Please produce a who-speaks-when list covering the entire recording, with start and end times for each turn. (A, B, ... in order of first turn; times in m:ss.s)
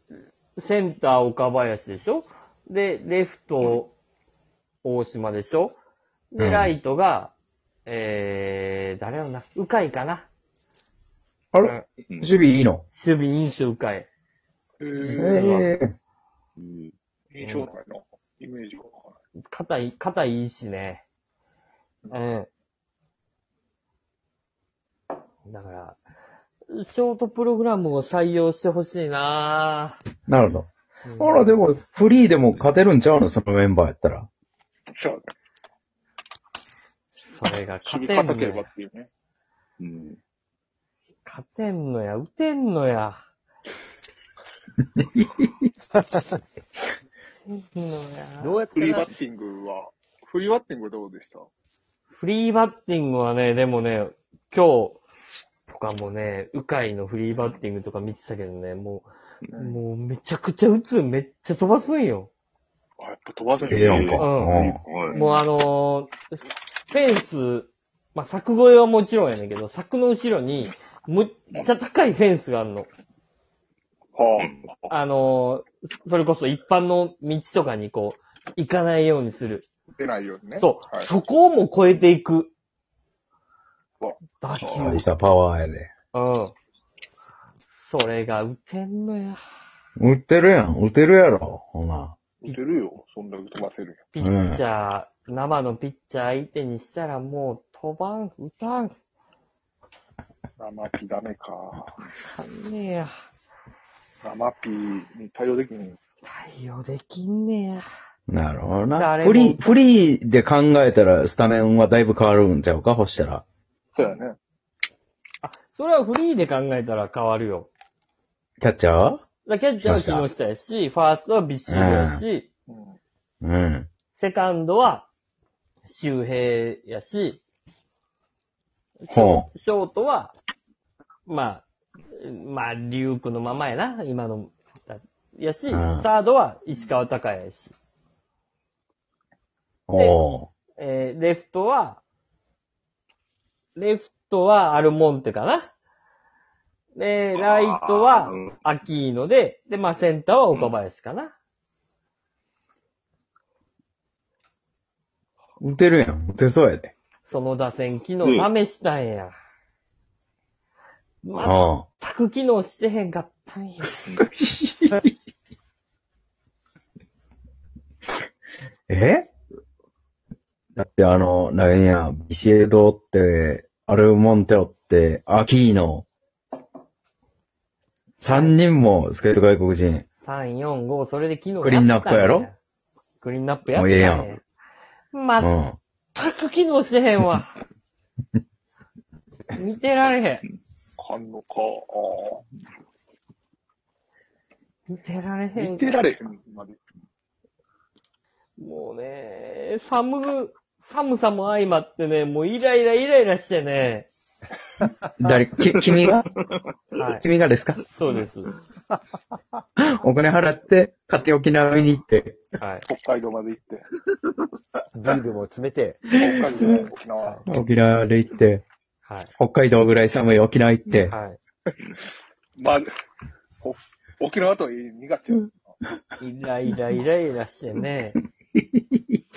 0:00.6-0:03.9 A
0:04.8-0:05.8 A
0:06.3-0:07.3 A
0:06.4-0:06.8 B
0:07.8-0:10.3 A
0:11.5-0:12.8 B
0:12.9-0:14.1 A
0:14.8-0:15.7 C
0:15.0-0:15.7 A
0:15.1-0:15.9 B
0:16.6-0:16.9 D
0:17.3-0:19.2 C
0:19.4-0:21.0 A
0:22.1-0:22.5 A
0:25.4-0:26.0 A
0:26.7-0:30.0 A
0:30.3-0:34.3 B
0:31.0-0:31.6 A
0:34.9-0:35.3 C
0:37.3-0:38.7 A
0:37.8-0:39.1 C
0:39.8-0:40.2 D
0:41.2-0:43.2 A
0:45.0-0:45.4 B
0:45.9-0:46.4 E
0:47.5-0:48.6 A
0:48.4-0:49.2 E
0:48.7-0:51.5 C
0:52.1-0:55.0 A
0:55.7-1:02.3 A
0:59.5-0:59.8 C
1:03.0-1:04.2 C
1:03.7-1:05.2 D
1:03.7-1:04.8 B
1:04.2-1:04.6 A
1:05.1-1:06.2 A
1:06.9-1:12.9 A
1:14.1-1:14.9 C
1:14.9-1:19.7 A
1:20.0-1:21.1 C
1:20.6-1:22.5 A
1:24.0-1:25.0 C
1:24.4-1:25.1 A
1:24.6-1:25.9 B
1:26.1-1:26.5 A
1:27.7-1:29.4 A
1:30.0-1:32.1 B
1:32.4-1:34.0 C
1:34.1-1:38.9 A
1:34.2-1:34.6 B
1:40.6-1:42.0 C
1:42.2-1:43.2 A
1:44.2-1:46.0 C
1:46.2-1:47.9 A
1:48.3-1:53.4 B
1:48.9-1:49.6 A
1:53.9-1:54.4 C
1:55.4-1:57.7 A
1:58.6-1:59.2 B
1:59.4-2:02.5 A
1:59.8-2:00.3 B
2:01.7-2:02.2 B
2:02.7-2:03.0 C
2:03.4-2:03.9 B
2:04.1-2:05.1 A
2:05.8-2:07.4 A
2:09.0-2:10.3 A
2:09.1-2:09.5 B
2:11.2-2:17.7 A
2:15.7-2:16.1 B
2:19.9-2:20.5 B
2:20.8-2:22.0 A
2:23.7-2:25.7 A
2:26.9-2:31.3 A
2:27.3-2:28.5 D
2:35.6-2:36.9 B
2:37.2-2:39.3 A
2:38.2-2:38.5 D
2:41.2-2:44.2 A
2:41.4-2:41.8 B
2:44.2-2:45.1 B
2:48.9-2:49.3 B
2:50.7-2:56.0 B
2:58.2-3:00.0 B
2:58.2-2:58.6 A
3:00.2-3:02.6 A
3:01.6-3:02.5 B
3:03.2-3:04.4 A
3:03.7-3:04.3 B
3:05.1-3:05.5 A
3:05.4-3:05.8 B
3:06.1-3:07.6 A
3:09.5-3:10.4 A
3:11.0-3:12.4 C
3:14.9-3:16.0 A
3:15.5-3:16.8 C
3:18.6-3:24.1 A
3:25.2-3:26.3 B
3:27.0-3:27.2 A
3:27.2-3:27.8 B
3:27.9-3:28.5 A
3:29.8-3:32.4 B
3:32.6-3:32.8 A
3:32.9-3:33.8 C
3:34.9-3:36.2 E
3:36.1-3:37.4 C
3:36.2-3:36.8 B
3:37.2-3:37.4 A
3:37.5-3:38.6 B
3:39.0-3:39.3 A
3:39.4-3:41.1 B
3:41.1-3:41.4 A
3:42.6-3:42.9 C
3:43.6-3:45.8 C
3:46.2-3:48.2 A
3:48.6-3:49.2 B